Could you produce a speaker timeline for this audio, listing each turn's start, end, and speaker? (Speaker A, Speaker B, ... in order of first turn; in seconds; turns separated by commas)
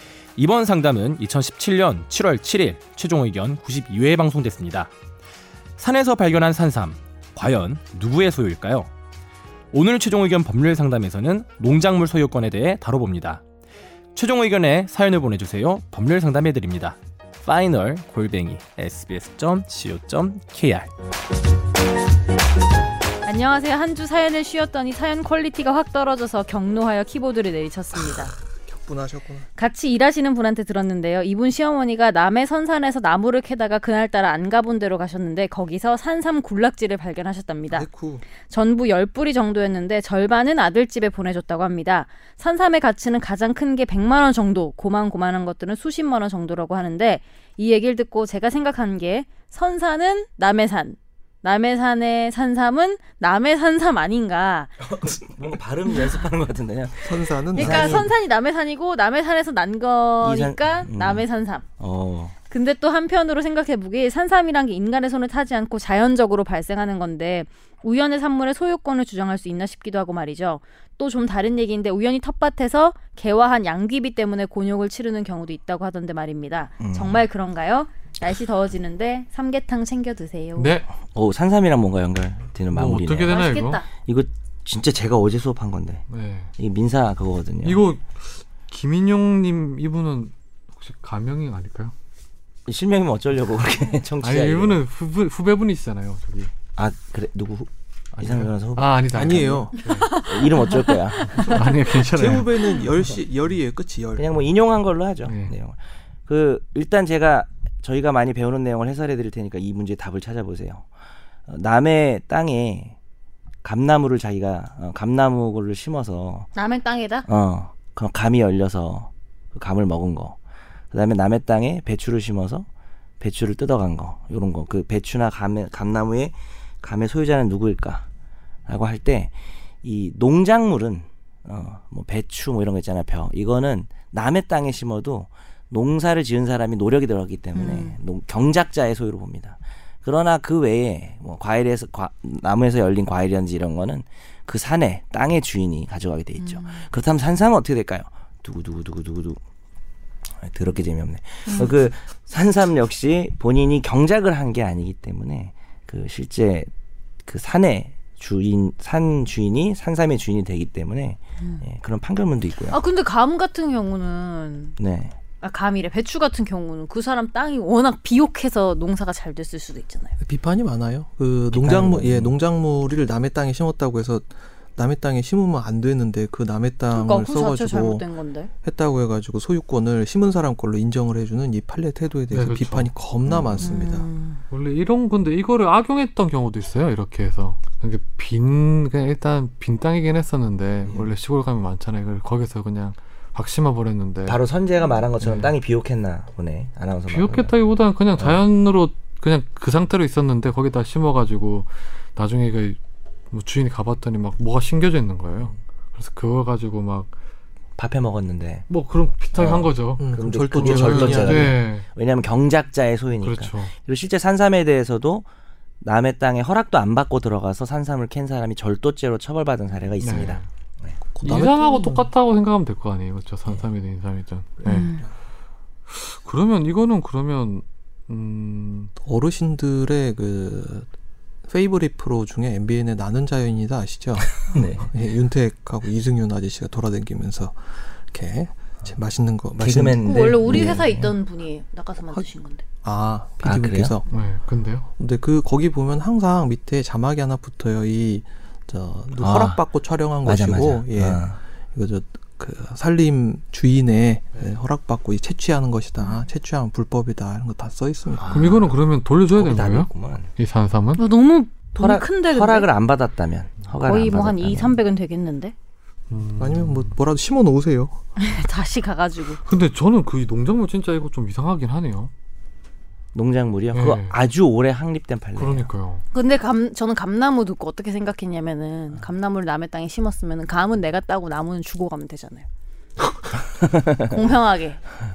Speaker A: 0.4-4.9, Speaker A: 5.8-8.9, Speaker A: 9.7-13.4, Speaker A: 14.1-20.9, Speaker B: 23.2-28.3, Speaker C: 28.7-29.5, Speaker B: 29.6-37.9, Speaker C: 37.7-38.3, Speaker B: 38.5-54.8, Speaker D: 54.9-58.1, Speaker C: 57.0-58.1, Speaker B: 57.5-61.6, Speaker D: 60.2-61.2, Speaker D: 61.8-62.3, Speaker B: 62.5-80.8, Speaker D: 76.8-77.2, Speaker E: 80.6-80.9, Speaker D: 81.0-86.1, Speaker E: 82.7-83.8, Speaker B: 83.3-83.9, Speaker E: 86.1-86.5, Speaker D: 86.6-87.8, Speaker E: 87.6-91.9, Speaker D: 92.7-94.8, Speaker E: 94.2-96.5, Speaker D: 96.8-101.4, Speaker E: 98.2-100.2, Speaker C: 99.1-99.8, Speaker B: 99.8-101.6, Speaker C: 101.3-104.3, Speaker E: 101.4-102.5, Speaker D: 104.2-110.9, Speaker E: 105.2-105.5, Speaker D: 111.5-113.0, Speaker D: 113.6-116.5, Speaker B: 116.5-117.3, Speaker D: 117.3-120.4, Speaker D: 120.9-122.7, Speaker D: 123.2-128.1, Speaker D: 128.7-149.4, Speaker B: 137.5-138.0, Speaker B: 146.4-146.8, Speaker D: 150.4-156.7, Speaker D: 157.2-162.8, Speaker B: 162.7-164.8, Speaker D: 164.8-165.2, Speaker B: 165.4-170.1, Speaker C: 170.2-178.1, Speaker D: 171.5-172.3, Speaker B: 176.9-178.5, Speaker C: 178.6-184.1, Speaker E: 182.3-182.9, Speaker D: 183.3-183.6, Speaker B: 183.6-184.4, Speaker E: 184.5-194.4, Speaker D: 190.8-191.1, Speaker D: 194.2-197.5, Speaker E: 195.2-195.5, Speaker E: 197.1-202.8, Speaker D: 198.2-198.4, Speaker E: 203.3-207.1, Speaker D: 207.8-208.7, Speaker E: 208.7-211.9, Speaker D: 209.3-215.3, Speaker C: 210.0-211.5, Speaker E: 213.2-213.7, Speaker D: 215.8-221.0, Speaker E: 220.0-220.5, Speaker C: 221.2-222.1, Speaker E: 221.2-225.0, Speaker B: 224.7-225.0, Speaker C: 224.7-225.1, Speaker E: 225.9-228.9, Speaker C: 229.0-230.9, Speaker C: 231.5-240.8, Speaker D: 234.4-235.0, Speaker D: 239.6-241.1, Speaker B: 240.0-242.6, Speaker C: 242.8-244.1, Speaker D: 243.4-244.0, Speaker E: 244.1-244.9, Speaker C: 245.0-258.4, Speaker D: 249.2-249.6, Speaker D: 250.2-251.3, Speaker B: 256.0-256.2, Speaker D: 258.1-258.7, Speaker E: 258.3-261.0, Speaker D: 259.3-260.3, Speaker B: 261.0-262.7, Speaker D: 261.8-264.8, Speaker B: 263.8-265.5, Speaker E: 266.1-266.9, Speaker C: 266.4-268.0, Speaker B: 268.2-269.4, Speaker E: 269.4-272.1, Speaker D: 273.1-275.7, Speaker E: 273.7-274.2, Speaker E: 275.4-276.0, Speaker B: 276.1-282.5, Speaker D: 283.6-284.1, Speaker B: 284.0-284.8